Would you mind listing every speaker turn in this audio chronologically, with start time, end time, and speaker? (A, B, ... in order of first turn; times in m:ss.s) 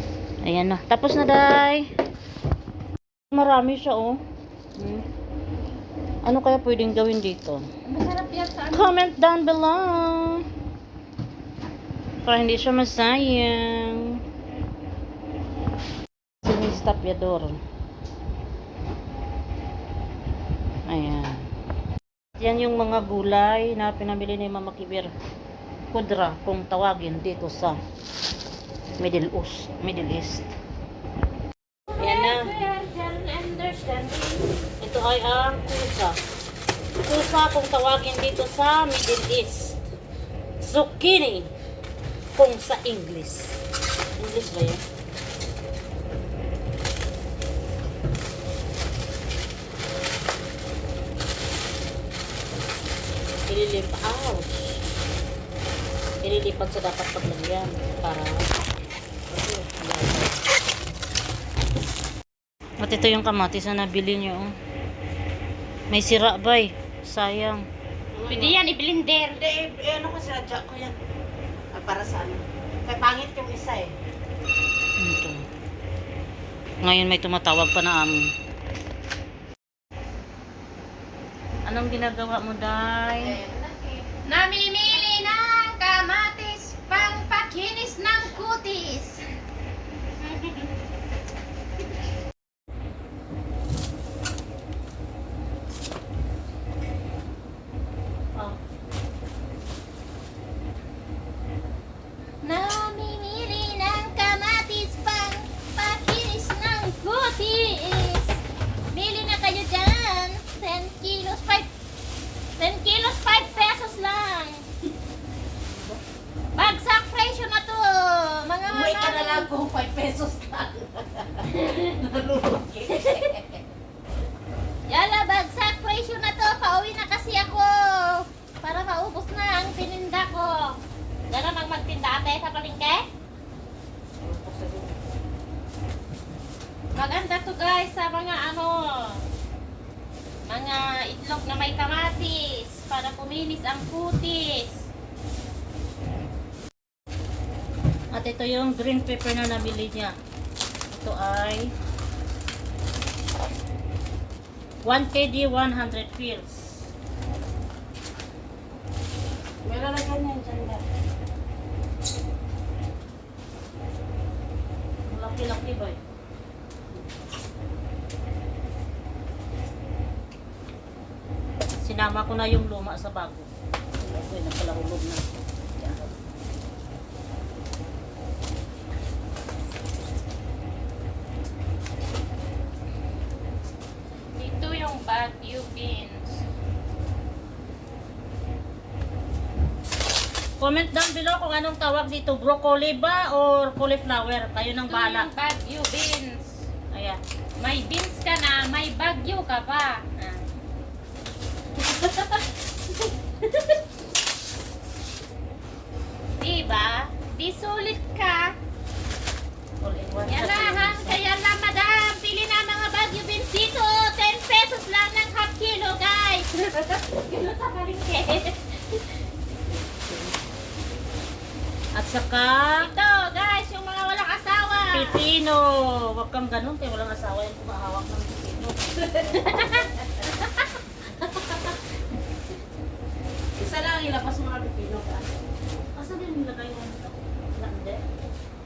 0:00.4-0:01.8 A
0:03.3-0:04.2 A
0:04.8-0:05.0 A
0:06.2-0:07.6 A
0:07.9-0:09.0 B
0:08.7-0:10.4 A
0:12.2-0:14.2 A
0:16.4-0:17.6 A
0:20.9-0:21.4 A
0:22.4-0:25.1 A
0:25.9-0:27.8 A
0:29.0-0:30.5 A
0:31.9-0:34.6 B
0:32.0-0:32.5 A
0:34.8-0:36.2 A
0:37.0-0:39.8 A
0:40.6-0:41.5 A
0:42.4-0:43.6 A
0:44.2-0:44.8 A
0:53.5-0:54.8 A
0:56.2-0:58.4 A
0:59.3-1:00.3 A
1:02.8-1:04.6 A
1:05.9-1:07.6 A
1:08.2-1:08.5 C
1:08.3-1:09.5 B
1:09.4-1:11.0 C
1:11.7-1:13.9 C
1:15.0-1:15.4 A
1:16.8-1:18.3 A
1:21.7-1:23.4 A
1:23.4-1:23.8 C
1:24.1-1:29.2 B
1:30.3-1:30.5 B
1:42.4-1:51.7 B
1:52.6-1:54.6 B
1:56.6-1:59.5 B
1:58.7-2:03.6 C
2:01.5-2:02.0 B
2:02.9-2:03.4 B
2:04.9-2:13.1 B
2:14.3-2:14.9 C
2:17.0-2:19.2 B
2:20.5-2:24.9 B
2:28.1-2:30.2 A
2:30.9-2:31.7 A
2:34.8-2:36.8 A
2:39.6-2:40.8 C
2:45.0-2:46.0 A
2:51.8-2:53.5 A
2:54.0-2:56.1 A
3:04.3-3:06.4 B
3:10.6-3:15.3 A
3:14.8-3:16.6 B
3:16.9-3:17.2 A
3:17.6-3:20.4 B
3:21.8-3:23.8 B
3:26.4-3:28.6 B
3:29.8-3:31.2 A
3:30.2-3:39.2 B
3:42.0-3:42.9 A
3:42.8-3:45.2 B
3:44.9-3:48.8 A
3:49.2-3:50.7 B
3:51.2-3:51.7 B
3:53.6-3:55.3 C
3:56.0-3:58.0 A